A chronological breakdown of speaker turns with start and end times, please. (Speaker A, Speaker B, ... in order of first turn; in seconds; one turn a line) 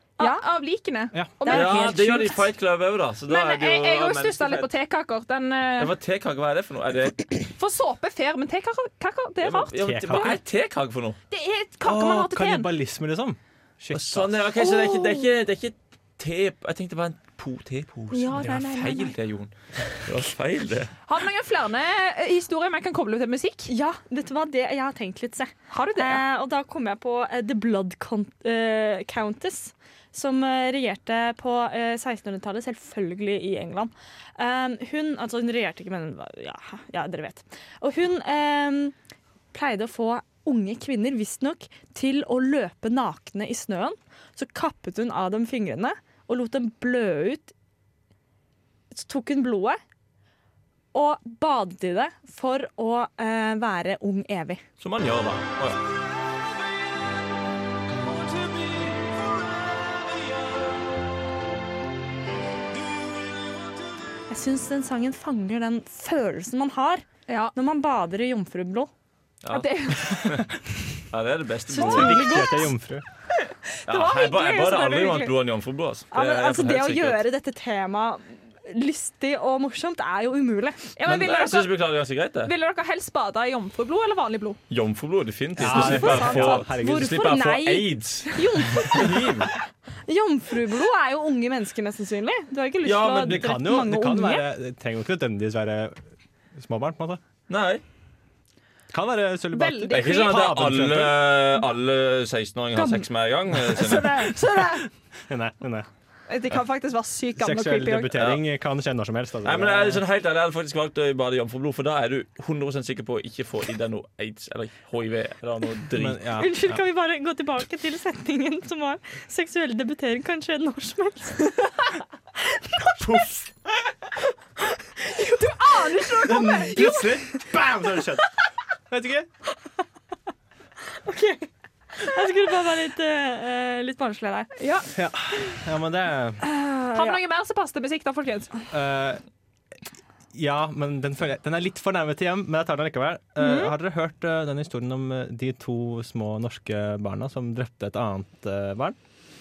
Speaker A: 0.2-2.0
Speaker B: 1.4-2.5
Speaker C: 1.5-4.7
Speaker A: 3.3-5.9
Speaker C: 5.8-7.4
Speaker A: 7.6-10.4
Speaker C: 9.4-11.2
Speaker D: 9.8-10.4
Speaker A: 11.3-12.7
Speaker D: 11.8-14.5
Speaker C: 13.9-20.9
Speaker B: 18.1-19.1
Speaker A: 18.4-18.6
Speaker A: 21.1-23.7
Speaker B: 23.7-38.9
Speaker A: 25.7-26.2
Speaker B: 39.5-47.5
Speaker B: 48.9-49.8
Speaker B: 50.9-54.6
Speaker C: 54.8-55.8
Speaker B: 64.3-68.9
Speaker A: 67.3-67.5
Speaker C: 69.4-70.4
Speaker A: 69.5-70.2
Speaker C: 71.1-72.4
Speaker B: 71.7-72.7
Speaker D: 71.8-73.0
Speaker B: 73.8-75.3
Speaker C: 73.9-77.2
Speaker B: 76.1-80.9
Speaker A: 81.0-81.8
Speaker C: 81.0-82.5
Speaker A: 82.4-84.6
Speaker C: 84.7-89.5
Speaker D: 85.5-87.3
Speaker A: 85.7-86.4
Speaker B: 86.0-89.3
Speaker B: 90.1-94.5
Speaker C: 92.8-93.5
Speaker D: 93.2-96.0
Speaker D: 96.5-97.2
Speaker C: 97.5-97.8
Speaker D: 98.9-101.4
Speaker A: 99.5-100.5
Speaker C: 99.9-104.3
Speaker B: 102.8-103.0
Speaker A: 103.7-104.9
Speaker D: 104.5-105.9
Speaker A: 106.3-108.2
Speaker D: 107.4-110.0
Speaker C: 108.1-108.4
Speaker C: 109.4-116.2
Speaker D: 115.9-116.8
Speaker B: 116.4-121.7
Speaker B: 122.7-123.2
Speaker A: 125.0-127.1
Speaker D: 126.2-128.4
Speaker D: 128.9-129.3
Speaker B: 131.0-134.5
Speaker A: 134.6-134.9
Speaker D: 134.9-136.4
Speaker B: 136.4-137.2
Speaker A: 136.9-138.5
Speaker D: 138.7-139.2
Speaker D: 140.3-149.0
Speaker A: 143.4-143.7